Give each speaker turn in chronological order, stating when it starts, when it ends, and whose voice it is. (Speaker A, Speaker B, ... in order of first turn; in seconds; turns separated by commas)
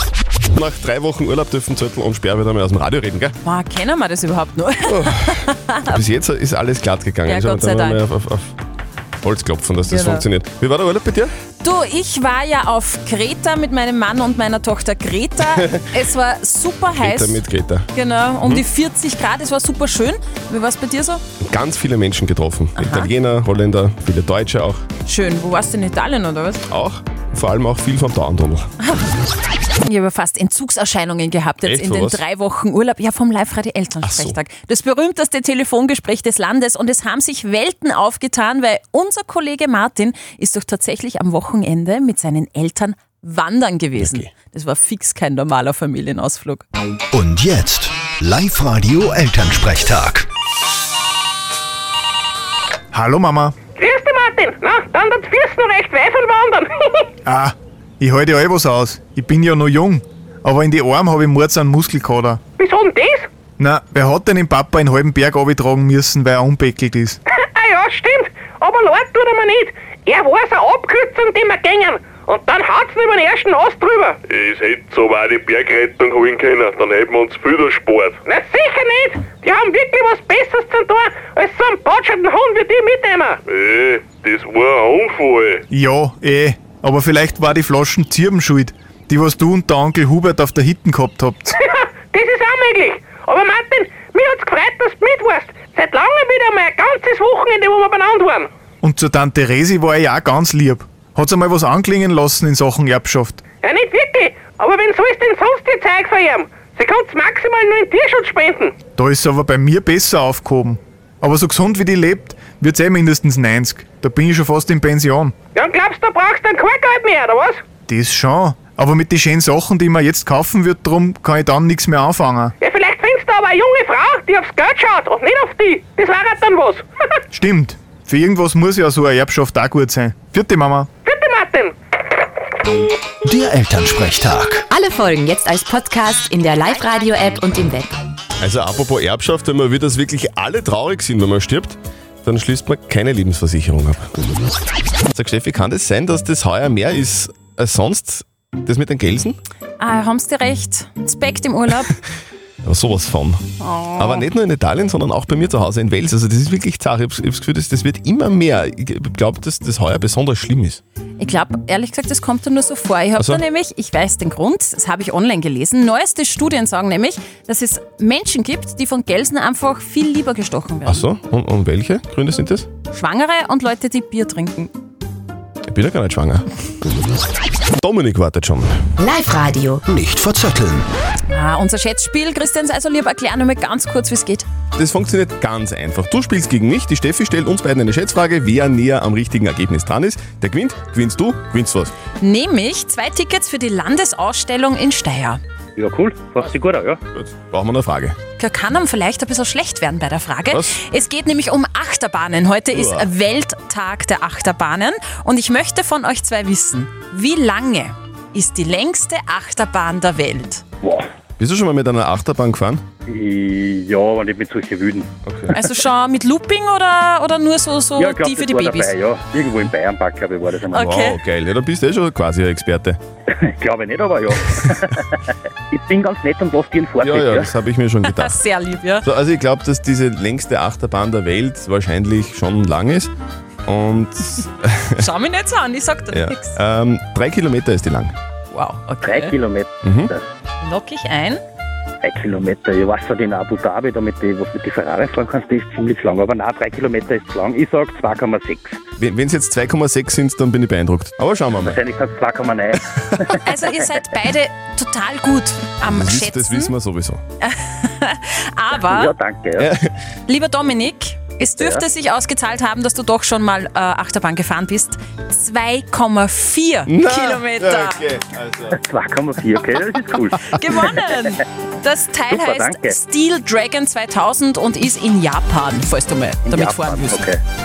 Speaker A: 0.5-3.3, Speaker B: 3.4-6.0, Speaker A: 4.9-8.5, Speaker B: 7.2-8.0, Speaker A: 9.2-11.3, Speaker B: 9.9-10.2, Speaker B: 11.6-17.4, Speaker A: 17.0-17.9, Speaker B: 17.9-21.2, Speaker A: 21.4-24.8, Speaker B: 22.8-23.1, Speaker B: 25.1-26.6, Speaker A: 26.7-28.7, Speaker B: 28.8-29.1, Speaker B: 29.8-46.6, Speaker A: 31.6-32.2, Speaker A: 34.0-34.4, Speaker A: 44.0-44.3, Speaker C: 47.1-50.2, Speaker D: 52.9-53.5, Speaker E: 53.8-57.0, Speaker D: 57.2-62.4, Speaker E: 62.6-63.3, Speaker D: 63.6-67.2, Speaker E: 67.3-74.2, Speaker F: 74.3-78.2, Speaker E: 78.2-83.4, Speaker F: 83.5-85.6, Speaker D: 85.7-91.5, Speaker E: 91.5-98.5, Speaker D: 98.8-103.4, Speaker E: 103.6-108.7, Speaker D: 109.0-115.3, Speaker E: 115.5-117.6, Speaker D: 117.9-122.5, Speaker E: 122.6-126.8, Speaker D: 127.3-130.9, Speaker E: 131.0-131.7, Speaker C: 133.2-134.7, Speaker G: 134.7-137.9, Speaker A: 138.4-144.1, Speaker A: 145.1-149.3, Speaker B: 149.8-151.9, Speaker A: 152.6-153.4, Speaker B: 153.6-154.2, Speaker A: 154.0-160.8, Speaker B: 161.2-171.0, Speaker A: 163.2-163.4, Speaker A: 170.8-172.7, Speaker B: 172.9-174.7, Speaker A: 175.7-176.5, Speaker A: 177.8-178.7, Speaker G: 179.0-179.8, Speaker C: 179.8-180.8, Speaker B: 181.3-184.4, Speaker A: 184.8-191.9, Speaker B: 192.2-195.4, Speaker H: 195.8-197.0, Speaker A: 197.1-198.2, Speaker B: 198.4-210.6, Speaker A: 200.5-200.8, Speaker A: 202.7-203.1, Speaker A: 211.4-212.8, Speaker H: 213.1-215.1, Speaker A: 215.2-215.5, Speaker B: 215.5-218.9, Speaker H: 217.9-220.9, Speaker B: 220.7-221.2, Speaker A: 220.7-223.0, Speaker H: 223.3-227.5, Speaker A: 227.0-228.4, Speaker B: 228.1-229.1, Speaker A: 229.0-233.1, Speaker A: 233.7-235.0, Speaker B: 235.0-236.6, Speaker A: 236.1-238.1, Speaker B: 238.5-239.4, Speaker H: 239.0-240.2, Speaker A: 239.8-240.1, Speaker B: 240.6-241.4, Speaker H: 242.0-248.8, Speaker A: 249.0-251.8, Speaker H: 251.6-253.4, Speaker B: 253.4-256.7, Speaker A: 255.8-257.2, Speaker B: 257.4-259.1, Speaker H: 258.7-259.7, Speaker A: 259.6-259.9, Speaker B: 260.3-268.0, Speaker H: 261.5-261.8, Speaker A: 266.9-268.8, Speaker H: 268.7-270.5, Speaker B: 270.5-277.3, Speaker H: 272.3-273.0, Speaker H: 276.4-277.4